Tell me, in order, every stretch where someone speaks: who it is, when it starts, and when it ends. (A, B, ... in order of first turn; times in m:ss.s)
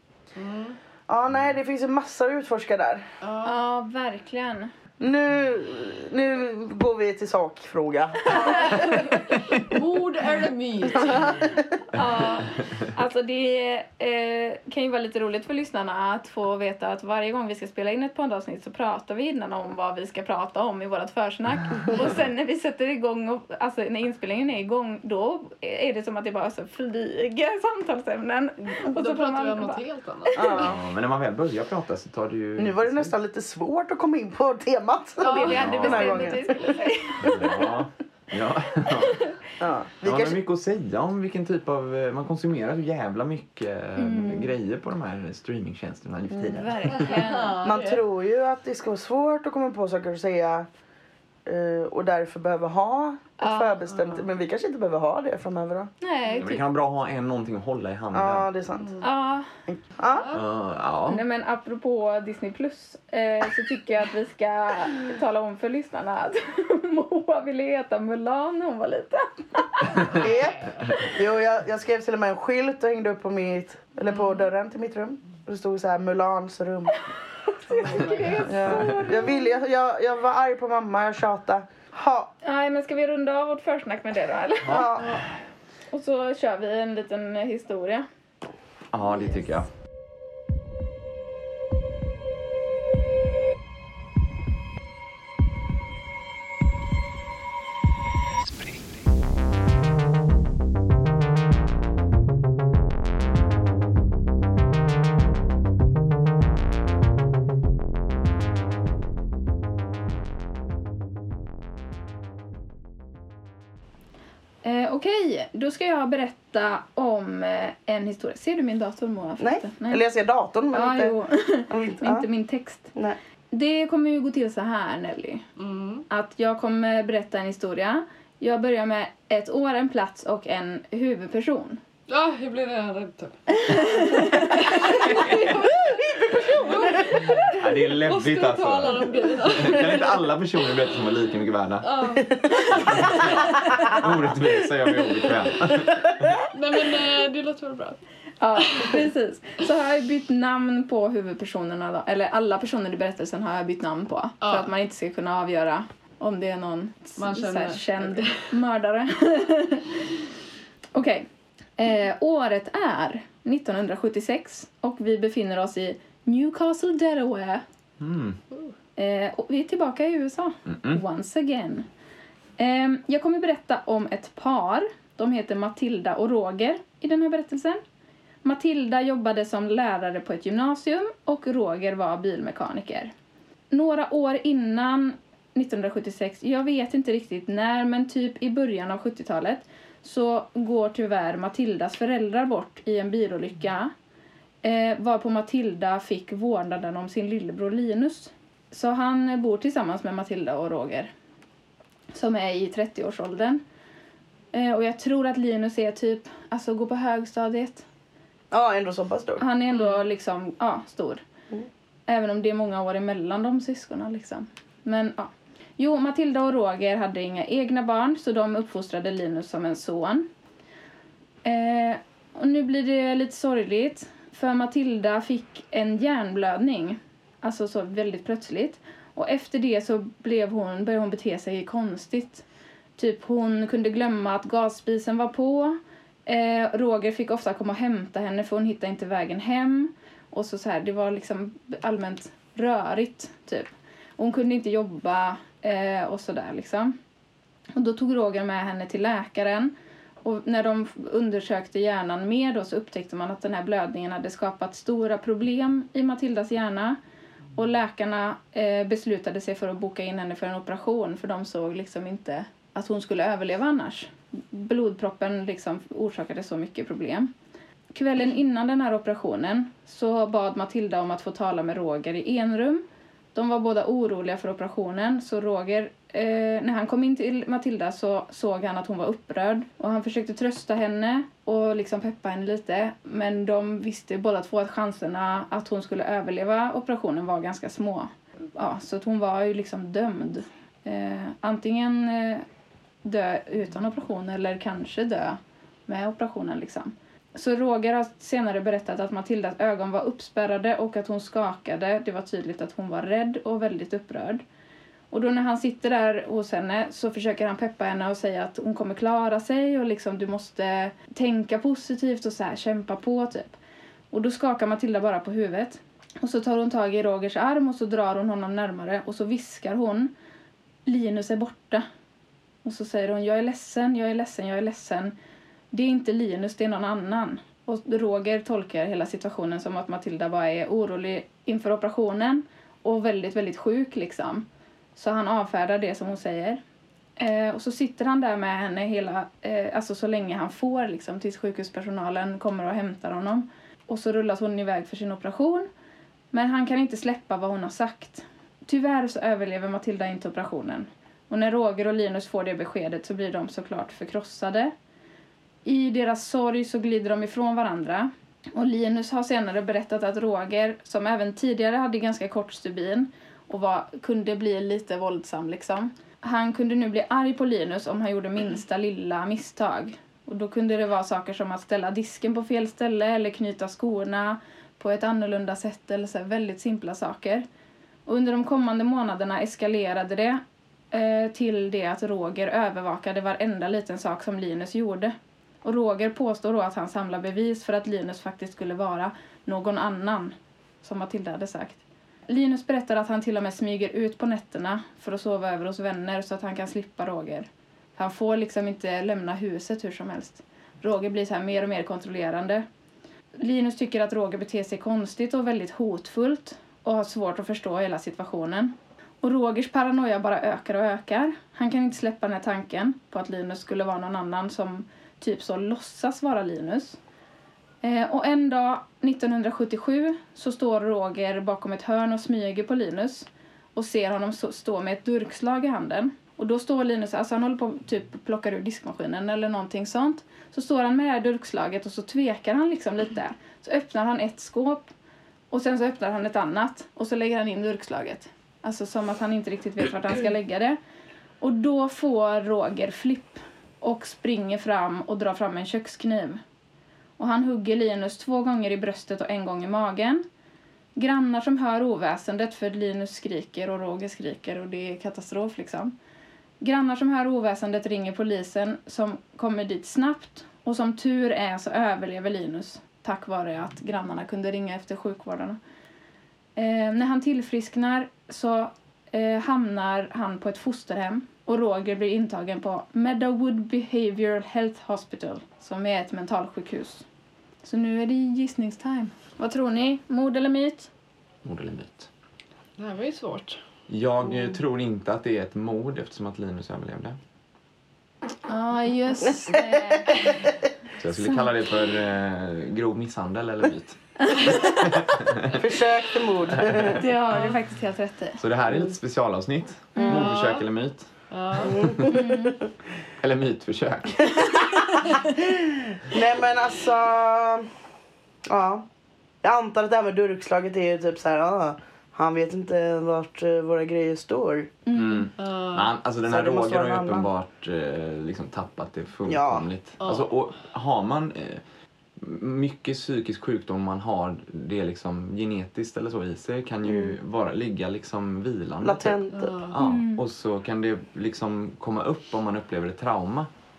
0:00.3-0:00.8 A
0:01.1-0:03.1 B
0:03.2-0:03.6 A
0:03.4-0:04.7 C
0:05.0-0:08.9 B
0:08.3-0:11.5 A
0:08.4-0:08.8 C
0:10.9-0:11.6 B
0:11.9-0:30.7 C
0:28.8-0:30.7 A
0:30.3-0:30.8 B
0:30.6-0:33.1 D
0:32.6-0:37.5 B
0:35.2-0:36.7 A
0:35.2-0:37.5 C
0:35.6-0:36.2 D
0:37.2-0:39.2 D
0:39.6-0:40.4 B
0:40.0-0:47.1 D
0:44.0-0:44.5 C
0:46.3-0:46.6 B
0:46.4-0:47.6 C
0:46.9-0:48.0 A
0:47.6-0:50.7 B
0:51.4-0:55.9 B
0:53.4-0:53.9 C
0:56.0-0:56.6 C
0:56.4-0:58.5 D
0:58.1-0:59.0 B
0:58.7-0:59.1 A
0:59.0-0:59.5 C
0:59.6-1:00.3 B
1:00.1-1:00.4 A
1:00.3-1:01.2 D
1:01.0-1:10.1 C
1:10.1-1:11.1 A
1:10.1-1:16.9 B
1:14.1-1:14.4 A
1:17.4-1:19.6 C
1:17.7-1:18.5 A
1:18.4-1:22.3 B
1:22.4-1:24.9 C
1:24.7-1:25.2 B
1:24.7-1:25.3 D
1:25.9-1:28.0 C
1:28.9-1:29.7 D
1:54.6-2:00.0 C
1:59.4-2:01.2 B
2:00.7-2:02.9 C
2:01.7-2:02.3 B
2:03.5-2:05.4 C
2:05.6-2:06.0 A
2:06.1-2:11.8 C
2:12.1-2:20.3 A
2:13.6-2:15.2 C
2:15.0-2:15.5 D
2:15.8-2:17.2 B
2:17.5-2:21.9 D
2:21.8-2:23.2 A
2:22.3-2:23.1 B
2:22.7-2:26.4 D
2:26.5-2:28.0 A
2:28.4-2:40.0 C
2:34.4-2:34.7 A
2:37.2-2:38.5 A
2:40.9-2:41.3 C
2:41.8-2:47.6 C
2:48.0-2:48.4 D
2:49.0-2:51.9 C
2:50.7-2:51.0 D
2:52.6-2:57.8 C
2:58.4-3:03.1 C
3:03.7-3:13.9 C
3:14.6-3:21.1 C
3:22.1-3:23.6 C
3:24.5-3:27.8 C
3:28.5-3:29.4 B
3:29.4-3:31.2 C
3:29.7-3:30.0 A
3:32.1-3:40.3 C
3:41.4-3:52.4 C
3:53.0-4:07.0 C
4:07.8-4:09.7 C
4:10.2-4:17.0 C
4:17.6-4:27.3 C
4:27.9-4:32.8 C
4:33.3-4:52.4 C
4:53.0-5:04.4 C
5:05.1-5:13.6 C
5:14.1-5:20.1 C
5:20.8-5:21.8 C
5:22.6-5:25.1 C
5:25.7-5:36.6 C
5:37.2-5:45.7 C
5:46.3-5:54.7 C
5:55.6-6:17.4 C
6:18.0-6:42.6 C
6:43.4-6:57.0 C
6:57.8-7:14.9 C
7:15.5-7:20.8 C
7:21.4-7:26.4 C
7:27.2-7:30.2 C
7:31.0-7:35.9 C
7:36.6-7:45.6 C
7:46.6-7:57.0 C
7:57.6-8:00.9 C
8:01.4-8:02.1 D
8:02.8-8:03.6 A
8:03.9-8:07.2 D
8:08.5-8:10.5 C
8:09.2-8:10.4 B
8:11.0-8:15.6 D
8:11.2-8:11.5 C
8:14.2-8:14.7 C
8:15.5-8:17.0 B
8:16.5-8:17.0 D
8:17.0-8:18.4 C
8:18.4-8:22.1 D
8:20.0-8:20.3 C
8:20.0-8:20.6 A
8:21.3-8:21.9 A
8:21.6-8:22.6 B
8:22.1-8:22.6 C
8:23.2-8:24.5 D
8:25.4-8:27.7 B
8:28.5-8:28.8 B
8:29.4-8:34.8 B
8:34.8-8:35.3 C
8:34.9-8:41.6 D
8:35.4-8:35.9 A
8:36.2-8:37.3 B
8:39.3-8:39.7 B
8:40.0-8:40.3 A
8:42.2-8:53.5 D
8:46.8-8:47.2 B
8:48.8-8:49.6 B
8:49.3-8:49.8 A
8:49.8-8:50.2 C